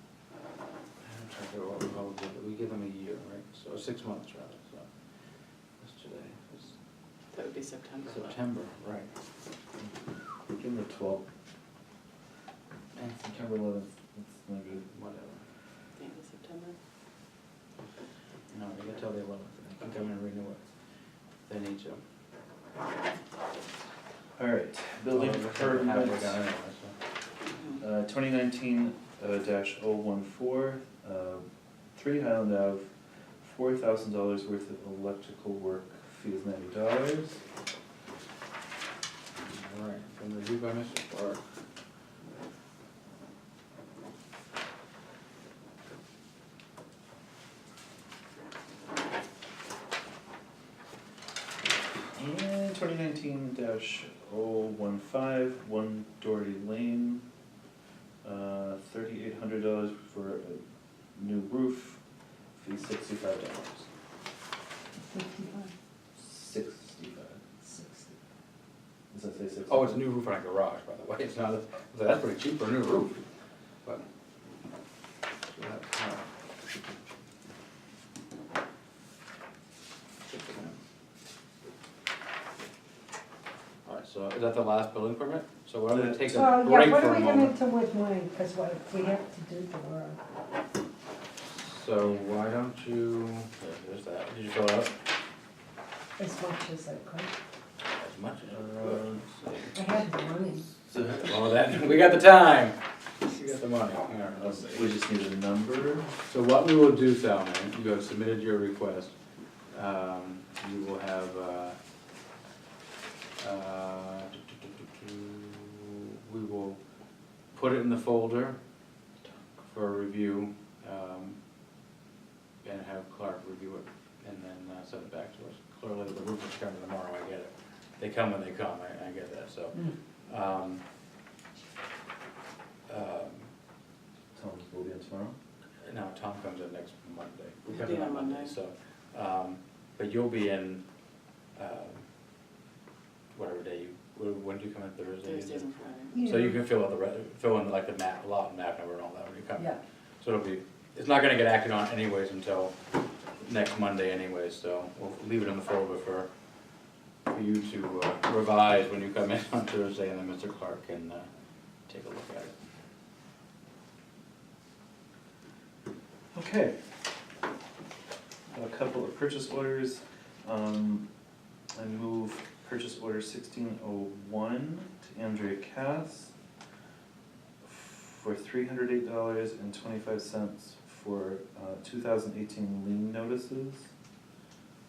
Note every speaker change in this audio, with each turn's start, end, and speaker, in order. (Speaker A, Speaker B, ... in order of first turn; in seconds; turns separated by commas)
Speaker A: 1.0-4.9, Speaker A: 5.8-6.7, Speaker B: 7.3-8.3, Speaker A: 8.1-9.1, Speaker C: 10.5-11.2, Speaker A: 12.9-13.2, Speaker C: 13.2-14.8, Speaker A: 14.9-15.4, Speaker B: 15.9-16.8, Speaker A: 18.5-20.6, Speaker A: 21.5-22.0, Speaker C: 24.4-26.4, Speaker A: 25.1-26.9, Speaker C: 27.8-31.4, Speaker C: 31.9-32.9, Speaker C: 33.4-37.4, Speaker A: 39.4-41.4, Speaker C: 52.1-57.2, Speaker C: 58.2-60.6, Speaker C: 61.1-62.0, Speaker C: 62.5-63.9, Speaker D: 65.1-65.7, Speaker C: 66.1-67.4, Speaker D: 67.6-68.1, Speaker C: 69.1-70.0, Speaker A: 69.7-73.2, Speaker A: 75.5-76.2, Speaker A: 80.2-80.8, Speaker A: 83.8-87.6, Speaker C: 85.9-86.5, Speaker D: 86.3-90.2, Speaker A: 91.5-94.9, Speaker D: 96.2-97.3, Speaker A: 97.9-99.8, Speaker C: 98.5-99.2, Speaker D: 99.7-100.7, Speaker C: 100.9-101.3, Speaker A: 100.9-104.9, Speaker C: 104.3-106.1, Speaker A: 106.3-109.1, Speaker A: 109.7-111.8, Speaker A: 113.4-116.8, Speaker A: 117.5-118.6, Speaker A: 119.7-121.4, Speaker A: 122.6-130.8, Speaker A: 132.9-133.5, Speaker C: 134.3-135.3, Speaker A: 135.8-140.8, Speaker B: 137.7-138.5, Speaker A: 141.6-142.0, Speaker A: 143.3-145.7, Speaker B: 145.2-146.2, Speaker D: 146.1-146.5, Speaker A: 146.2-152.7, Speaker A: 153.4-156.3, Speaker A: 157.3-161.3, Speaker A: 161.9-162.5, Speaker C: 166.3-166.7, Speaker C: 168.5-171.1, Speaker C: 171.7-176.3, Speaker C: 177.6-183.9